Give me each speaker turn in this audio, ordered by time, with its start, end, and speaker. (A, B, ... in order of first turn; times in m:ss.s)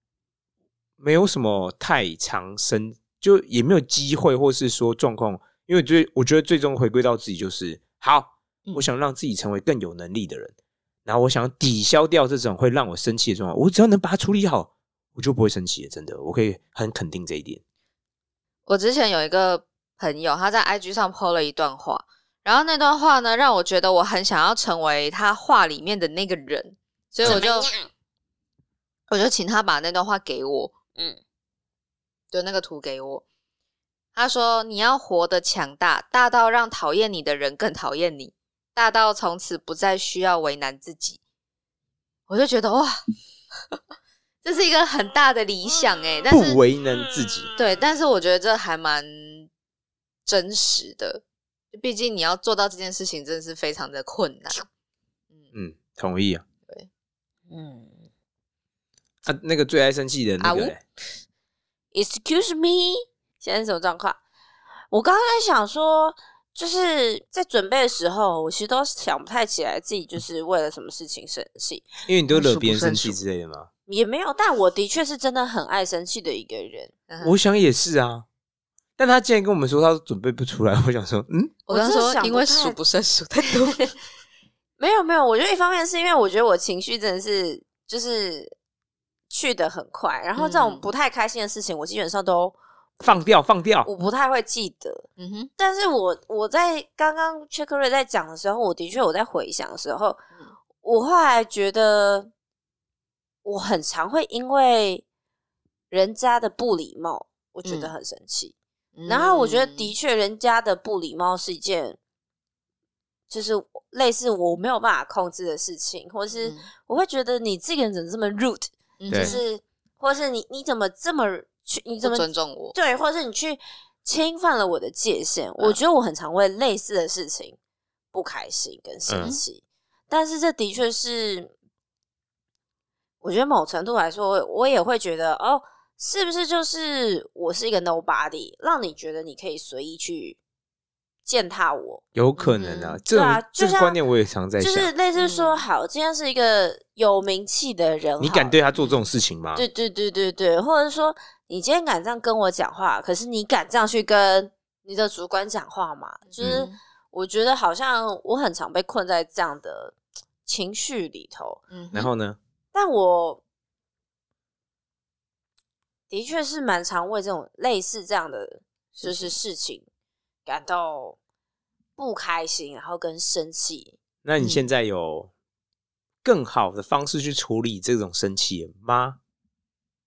0:01.0-0:10.5 A
0:11.0-0:17.6 A
0:18.6-0:27.7 B
0:27.2-0:27.9 C
0:29.1-0:30.7 B
0:32.3-0:33.2 B
0:34.1-0:41.2 B
0:42.3-0:43.0 B
0:44.4-0:46.6 B
0:46.3-0:47.5 A
0:47.6-0:49.5 B
0:50.2-0:54.6 B
0:55.5-0:56.4 A
0:57.5-0:58.0 C
0:59.2-1:00.8 A
1:00.4-1:00.7 B
1:01.9-1:04.2 C
1:04.9-1:11.9 C
1:12.1-1:13.7 A
1:12.3-1:13.2 B
1:13.9-1:16.9 C
1:17.1-1:17.4 B
1:17.2-1:18.2 A
1:19.0-1:21.6 A
1:21.7-1:24.0 B
1:21.7-1:22.8 C
1:24.8-1:28.5 C
1:29.3-1:33.2 C
1:30.4-1:30.9 B
1:33.0-1:33.9 A
1:33.8-1:35.0 C
1:35.2-1:35.5 B
1:35.6-1:40.2 C
1:40.8-1:42.3 C
1:43.4-1:45.0 C
1:45.9-1:48.5 C
1:47.6-1:47.9 B
1:48.9-1:49.9 B
1:49.1-1:52.0 C
1:53.3-2:07.6 C
1:56.3-1:56.6 B
1:59.0-1:59.4 B
2:02.0-2:02.8 B
2:08.1-2:11.5 C
2:09.1-2:09.3 A
2:13.2-2:20.4 C
2:21.2-2:22.0 C
2:22.1-2:24.9 A
2:22.4-2:23.0 B
2:23.1-2:24.0 C
2:24.6-2:28.5 C
2:25.1-2:25.6 B
2:28.2-2:29.6 A
2:28.8-2:29.0 B
2:29.5-2:39.9 C
2:36.3-2:36.8 B
2:36.4-2:36.6 A
2:40.5-2:41.6 C
2:41.7-2:42.1 B
2:41.9-2:42.4 A
2:42.7-2:43.4 C
2:46.1-2:49.8 C
2:49.0-2:49.3 B
2:50.5-2:51.2 C
2:52.0-2:54.0 C
2:54.2-2:55.3 A
2:54.4-2:54.6 B
2:56.2-2:59.2 A